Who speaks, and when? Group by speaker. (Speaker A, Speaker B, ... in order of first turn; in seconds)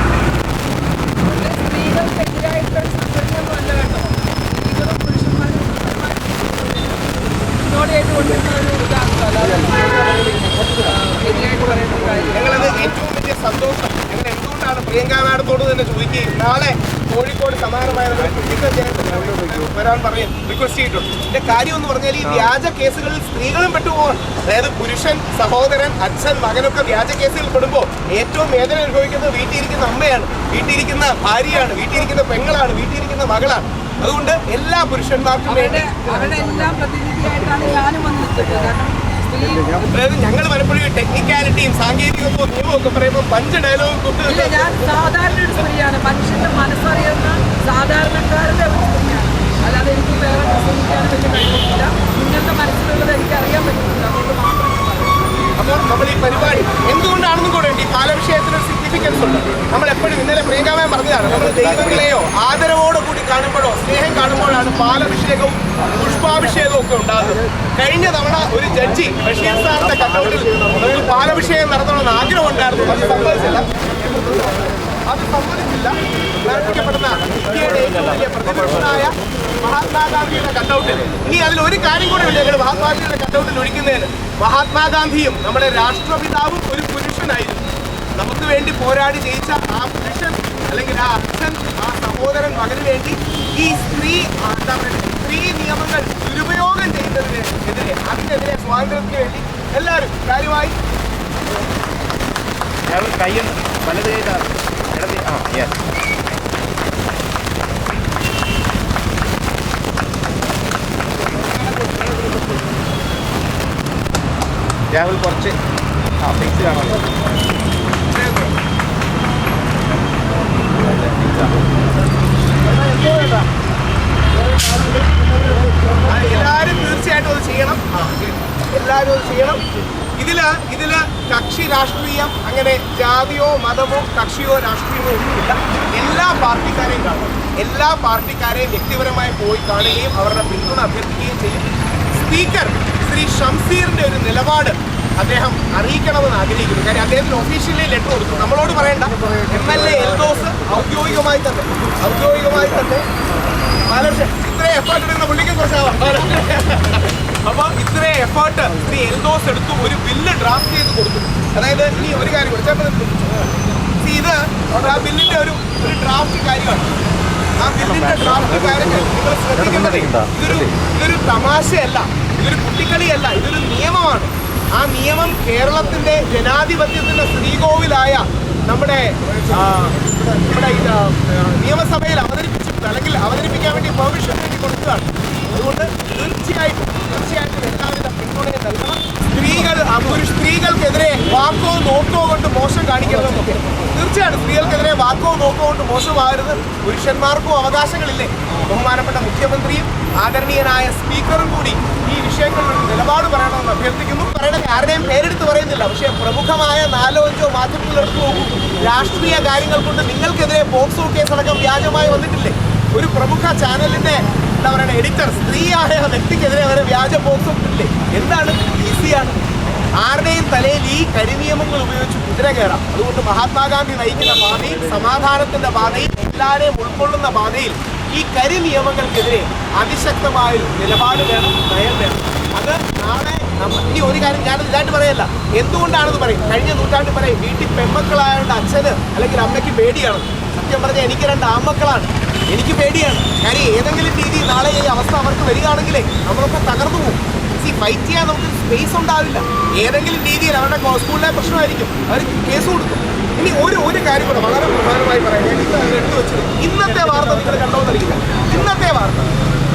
Speaker A: 1.2-12.9, 35.4-39.9, 44.2-55.5
Speaker B: 12.3-36.0, 39.9-44.8, 55.5-100.8, 111.3-112.7, 118.0-118.5, 122.6-123.5, 125.9-129.6, 130.2-153.1, 153.9-163.4, 163.9-166.9, 167.6-219.4, 219.9-259.3
Speaker C: 102.9-105.8, 114.9-115.6, 116.2-117.0, 120.8-121.6, 169.8-170.3